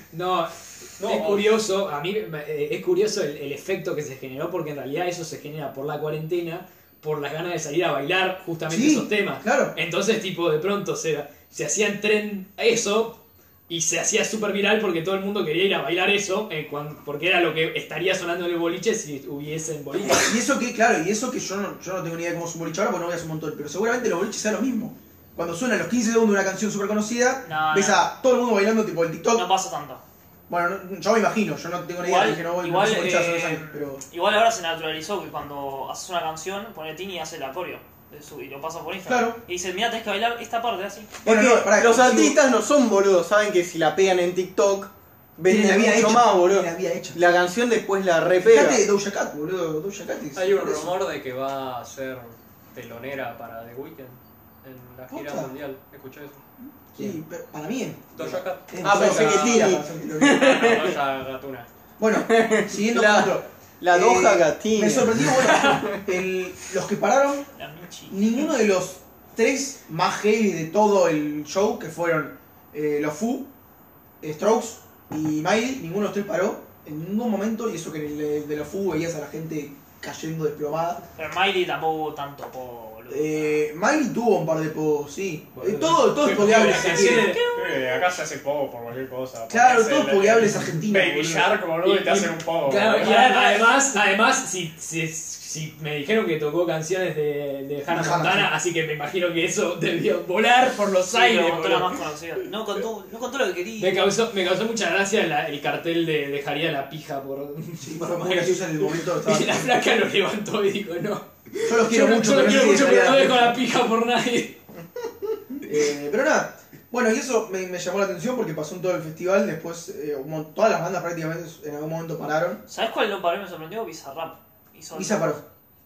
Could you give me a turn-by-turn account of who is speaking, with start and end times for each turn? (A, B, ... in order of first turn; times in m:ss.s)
0:00.1-0:20.4 A
0:01.0-0:01.6 B
0:08.7-0:09.8 C
0:20.0-0:29.5 C
0:27.4-0:28.1 D
0:29.3-0:30.0 D
0:30.5-0:34.0 C
0:32.0-0:41.2 D
0:39.1-0:39.4 C
0:41.2-0:42.4 C
0:41.2-0:48.8 E
0:45.5-0:47.3 C
0:48.4-0:50.9 C
0:50.4-0:56.4 B
0:55.1-0:55.5 C
0:56.9-1:00.6 C
0:58.1-1:01.7 B
0:58.8-1:01.0 E
1:02.0-1:07.5 C
1:02.1-1:06.0 E
1:07.6-1:08.5 D
1:08.1-1:13.5 C
1:14.2-1:21.0 C
1:21.2-1:23.6 D
1:23.1-1:27.4 C
1:25.6-1:27.4 A
1:26.3-1:33.2 B
1:27.0-1:28.2 D
1:29.5-1:31.6 C
1:31.8-1:42.0 A
1:33.0-1:33.7 D
1:37.9-1:38.5 C
1:41.1-1:44.1 D
1:43.8-1:54.6 A
1:47.8-1:49.7 C
1:51.7-1:53.6 C
1:55.6-2:02.6 C
2:02.7-2:05.4 D
2:04.9-2:05.4 C